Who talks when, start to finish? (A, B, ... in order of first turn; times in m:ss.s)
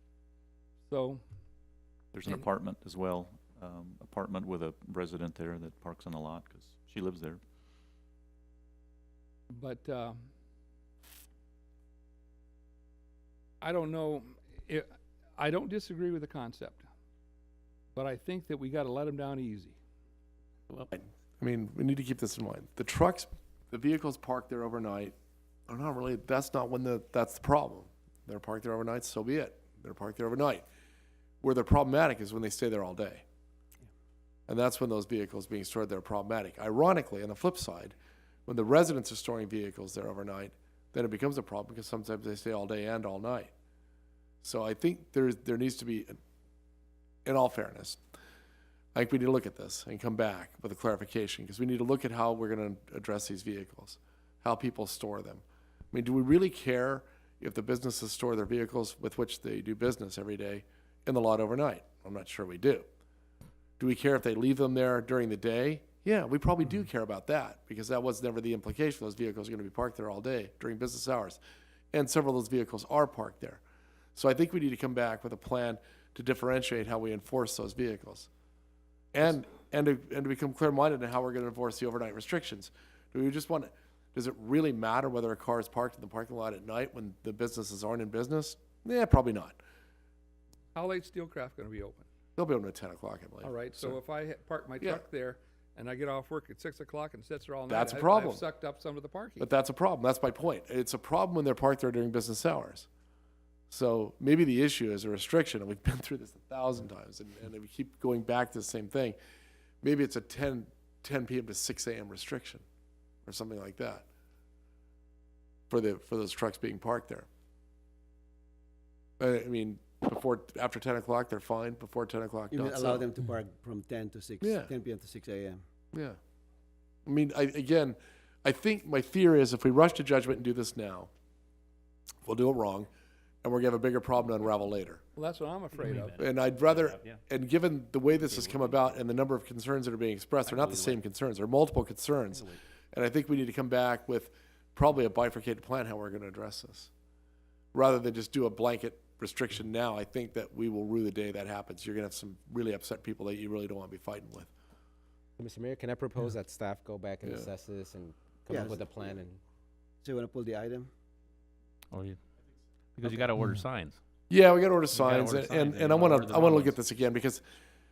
0:00.9-0:01.2 A
0:02.1-0:07.4 B
0:09.5-0:10.2 A
0:13.6-0:16.8 A
0:17.9-0:19.8 A
0:20.9-0:25.1 C
0:25.7-0:30.6 C
0:31.4-0:33.2 C
0:34.5-0:37.9 C
0:38.4-0:43.5 C
0:44.4-0:46.2 C
0:47.2-0:48.0 C
0:48.9-1:02.8 C
1:03.8-1:11.4 C
1:11.9-1:13.6 C
1:14.2-1:18.3 C
1:19.1-1:29.6 C
1:30.7-1:32.0 A
1:32.4-1:34.0 C
1:33.4-1:39.5 A
1:37.7-1:38.4 C
1:39.4-1:42.9 C
1:43.7-1:49.2 C
1:49.8-1:52.6 C
1:53.2-1:54.0 C
1:55.7-1:57.3 C
1:59.2-2:03.1 C
2:02.5-2:05.6 D
2:04.4-2:04.7 C
2:05.9-2:06.2 C
2:07.0-2:11.1 C
2:12.2-2:12.9 C
2:13.4-2:15.0 C
2:15.1-2:16.2 A
2:15.7-2:17.2 E
2:16.2-2:26.9 C
2:18.3-2:18.9 E
2:20.4-2:21.0 E
2:22.3-2:22.6 E
2:27.7-2:34.5 C
2:35.4-2:38.0 F
2:37.2-2:37.5 C
2:38.5-2:39.1 D
2:38.6-2:39.4 F
2:40.0-2:40.9 D
2:41.9-2:42.2 E
2:42.9-2:44.0 E
2:44.3-2:47.4 C
2:44.9-2:46.8 E